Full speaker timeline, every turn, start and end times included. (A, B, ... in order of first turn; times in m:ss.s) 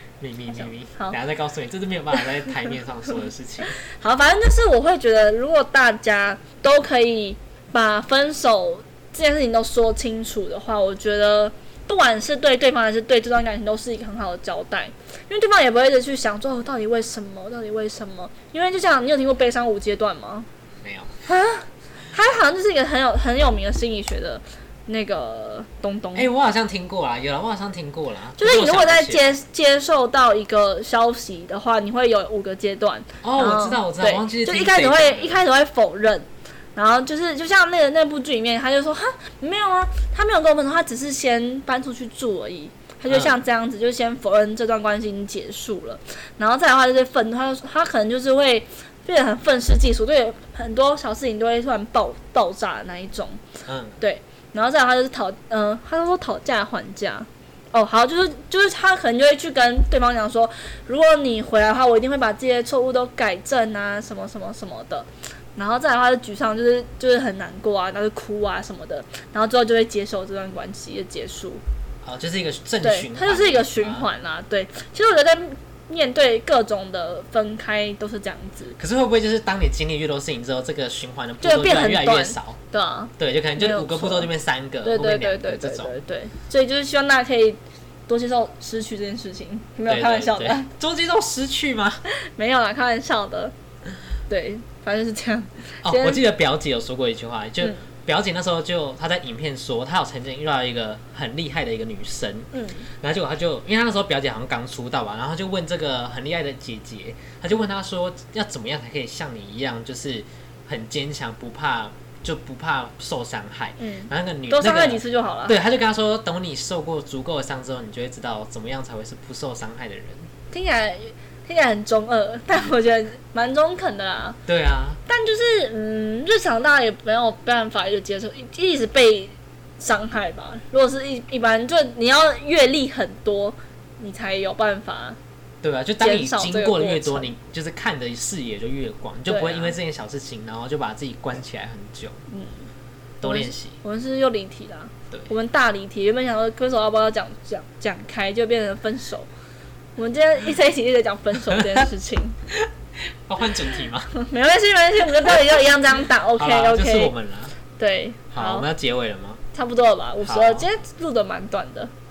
0:00.2-0:03.8 A
0:03.8-0:20.5 B
0:20.8-0:21.1 A
0:21.3-0:26.3 B
0:26.2-0:29.3 A
0:28.4-0:53.4 B
0:33.2-0:35.4 A
0:43.1-0:43.4 A
0:53.7-0:54.0 A
0:54.0-1:11.6 B
1:12.0-1:14.1 A
1:12.8-1:18.8 B
1:18.8-1:22.6 A
1:21.4-1:24.3 B
1:23.2-1:25.9 A
1:24.8-1:30.7 B
1:29.9-1:32.0 A
1:32.4-1:33.5 B
1:34.3-1:36.2 B
1:35.8-1:42.5 A
1:42.5-1:42.9 B
1:43.0-2:00.3 A
1:53.8-1:55.6 B
2:00.5-2:04.4 B
2:04.5-2:05.0 A
2:05.1-2:15.2 B
2:15.6-2:22.2 A
2:16.0-2:17.3 B
2:19.3-2:19.8 B
2:22.3-2:22.7 B
2:23.2-2:23.8 A
2:23.2-2:29.3 B
2:30.0-2:32.4 B
2:33.3-2:34.1 A
2:34.1-2:37.1 B
2:36.4-2:37.5 A
2:37.8-2:38.6 B
2:38.3-2:39.4 A
2:39.5-2:41.9 B
2:40.2-2:40.7 A